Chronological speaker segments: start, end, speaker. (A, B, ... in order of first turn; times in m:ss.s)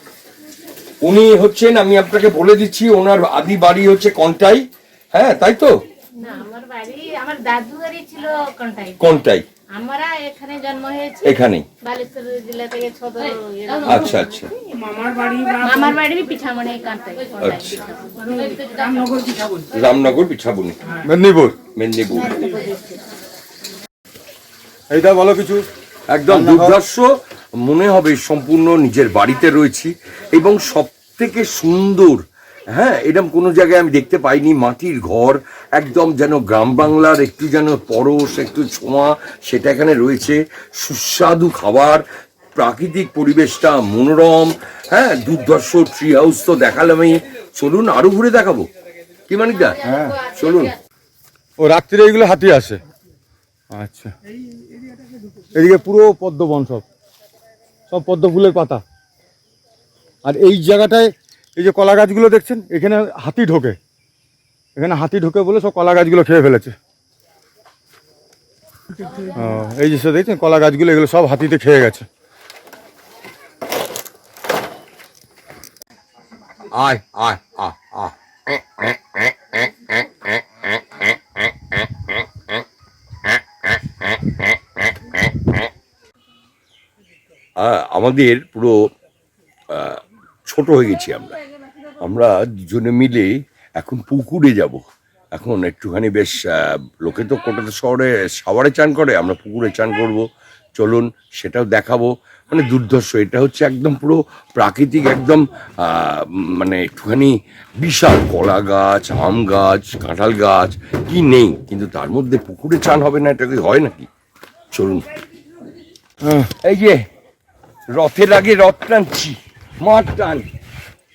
0:01.0-0:05.8 A
0:06.2-0:09.0 B
0:09.0-0:09.5 A
0:09.7-0:14.3 B
0:11.2-0:11.7 A
0:13.8-0:14.5 A
0:14.8-0:16.1 C
0:15.6-0:19.0 B
0:17.4-0:17.8 A
0:18.2-0:19.7 C
0:19.7-0:20.8 A
0:21.0-0:21.6 D
0:21.8-0:22.5 A
0:22.3-0:23.0 C
0:24.9-0:25.7 D
0:26.1-0:27.1 A
0:26.3-0:26.8 D
0:27.6-0:42.0 A
0:42.6-0:48.7 A
0:49.3-0:50.8 A
0:49.8-0:50.2 D
0:51.6-0:52.8 D
0:53.7-0:54.1 D
0:54.3-0:55.5 C
0:55.5-0:56.8 D
0:57.9-0:58.8 D
1:00.2-1:03.8 D
1:04.8-1:06.8 D
1:08.9-1:09.4 C
1:09.4-1:12.1 D
1:16.7-1:21.1 A
1:21.7-1:22.2 A
1:24.1-1:25.6 A
1:27.6-1:28.8 A
1:29.7-1:31.4 A
1:32.0-1:34.8 A
1:35.3-1:40.2 A
1:40.8-1:54.1 A
1:54.7-1:55.1 A
1:56.2-1:56.5 D
1:56.6-1:57.0 A
1:57.9-2:00.5 A